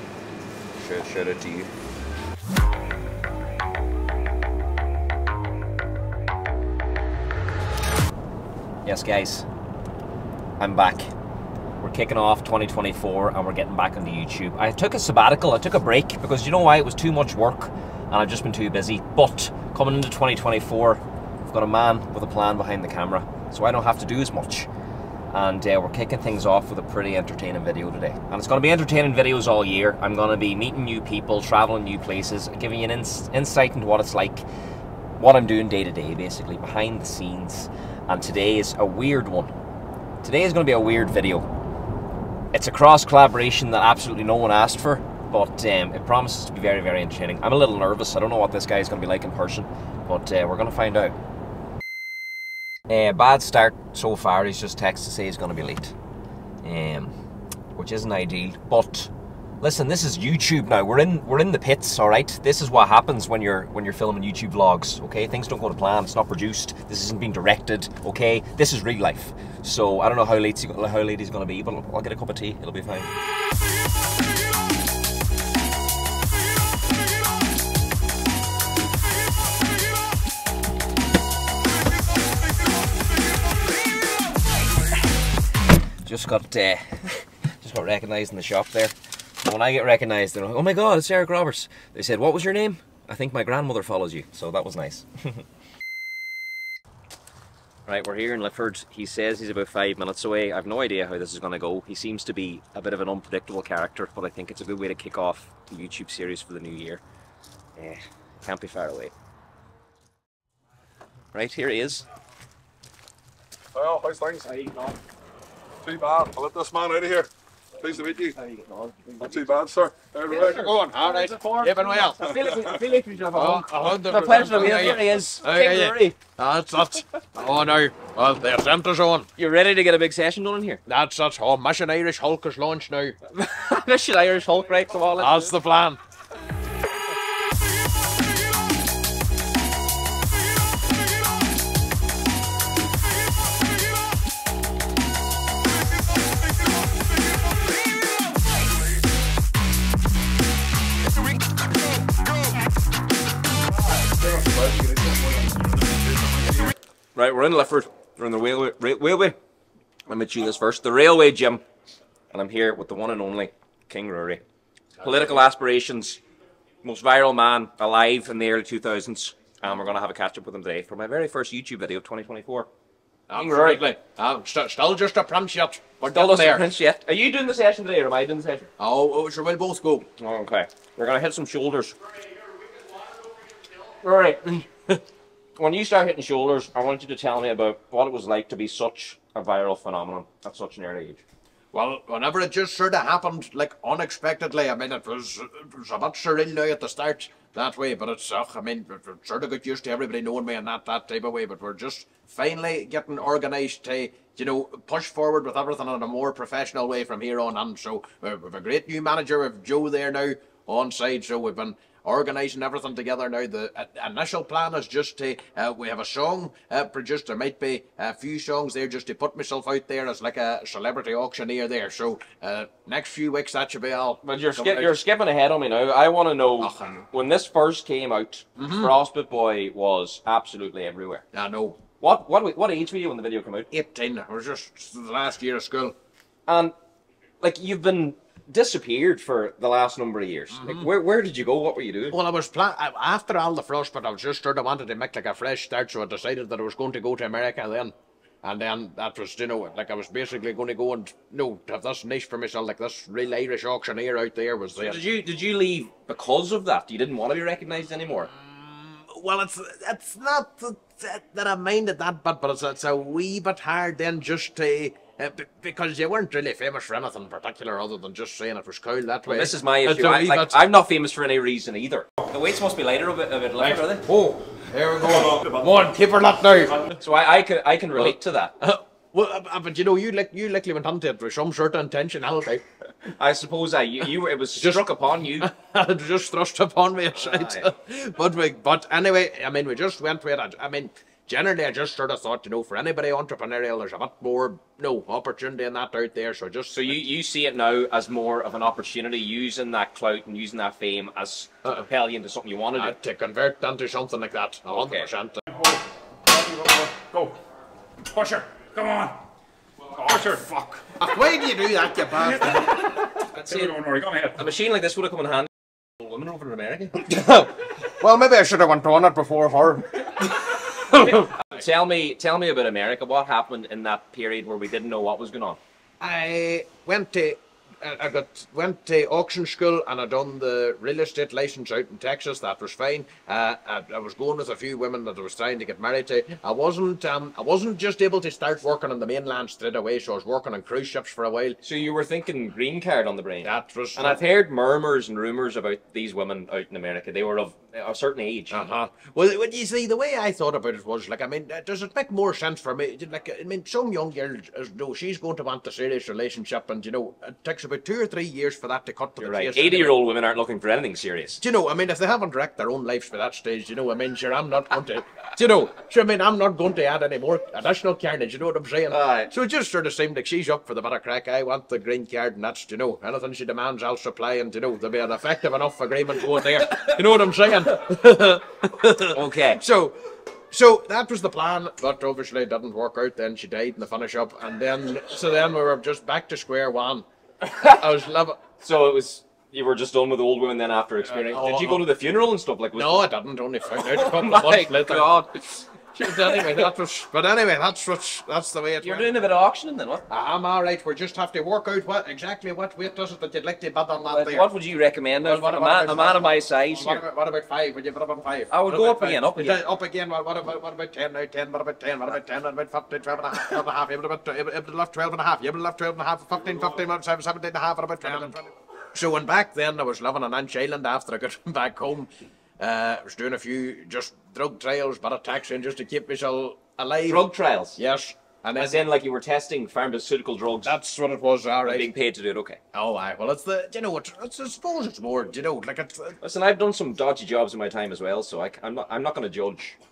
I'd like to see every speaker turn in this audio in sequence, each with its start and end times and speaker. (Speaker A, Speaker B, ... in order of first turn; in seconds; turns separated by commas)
Speaker A: 0.8-1.7, Speaker A: 8.8-9.4, Speaker A: 10.6-11.1, Speaker A: 11.8-24.7, Speaker A: 25.3-34.4, Speaker A: 35.2-39.5, Speaker A: 40.2-41.5, Speaker A: 42.5-51.1, Speaker A: 52.9-55.9, Speaker A: 56.6-57.1, Speaker A: 57.8-73.1, Speaker A: 86.0-95.4, Speaker A: 97.9-107.0, Speaker A: 107.8-109.1, Speaker A: 111.3-112.0, Speaker B: 113.7-114.5, Speaker A: 114.4-115.0, Speaker B: 115.8-118.3, Speaker A: 118.1-119.5, Speaker B: 119.2-120.6, Speaker A: 120.3-126.2, Speaker C: 120.3-122.3, Speaker C: 123.3-129.3, Speaker A: 129.4-130.8, Speaker C: 130.8-133.2, Speaker A: 133.3-135.5, Speaker C: 135.2-136.0, Speaker B: 154.2-156.7, Speaker A: 157.1-159.3, Speaker A: 160.1-161.6, Speaker A: 162.3-164.4, Speaker A: 165.0-166.2, Speaker A: 166.8-172.7, Speaker C: 173.3-176.7, Speaker A: 173.3-173.9, Speaker A: 176.1-178.7, Speaker C: 178.8-180.1, Speaker A: 180.2-182.0, Speaker A: 184.0-185.0, Speaker A: 185.6-191.2, Speaker C: 191.7-225.0, Speaker A: 224.2-231.2, Speaker C: 226.6-227.0, Speaker C: 228.6-228.9, Speaker C: 231.3-231.8, Speaker A: 232.0-233.7, Speaker C: 233.7-235.9, Speaker A: 236.5-236.7, Speaker A: 237.4-242.2, Speaker C: 240.5-240.9, Speaker C: 242.1-255.0, Speaker A: 254.8-258.3, Speaker C: 258.3-270.6, Speaker A: 269.3-274.1, Speaker C: 273.6-276.9, Speaker A: 276.9-278.5, Speaker C: 278.6-282.6, Speaker A: 283.1-285.5, Speaker C: 284.6-297.0, Speaker A: 287.2-287.7, Speaker A: 296.8-302.9, Speaker C: 302.7-305.4, Speaker A: 304.7-305.1, Speaker B: 306.3-307.4, Speaker B: 308.1-309.2, Speaker B: 309.9-310.8, Speaker C: 310.8-313.0, Speaker A: 313.1-317.5, Speaker B: 313.6-314.3, Speaker C: 318.0-321.3, Speaker A: 320.9-325.6, Speaker C: 326.0-341.6, Speaker A: 341.6-348.6, Speaker C: 343.4-344.2, Speaker C: 348.5-360.0, Speaker A: 359.2-361.4, Speaker C: 361.4-387.0, Speaker A: 368.9-369.3, Speaker A: 379.1-379.6, Speaker A: 387.4-387.9, Speaker C: 387.6-388.4, Speaker A: 388.6-393.0, Speaker C: 391.2-391.9, Speaker C: 392.7-395.1, Speaker A: 393.8-396.7, Speaker C: 395.9-399.1, Speaker A: 398.8-400.0, Speaker C: 400.1-404.5, Speaker A: 404.0-407.0, Speaker C: 405.2-427.2, Speaker A: 408.5-409.6, Speaker A: 427.1-427.8, Speaker C: 427.8-428.8, Speaker A: 428.6-430.7, Speaker C: 430.6-431.9, Speaker A: 431.6-432.6, Speaker C: 432.7-436.2, Speaker A: 436.2-439.8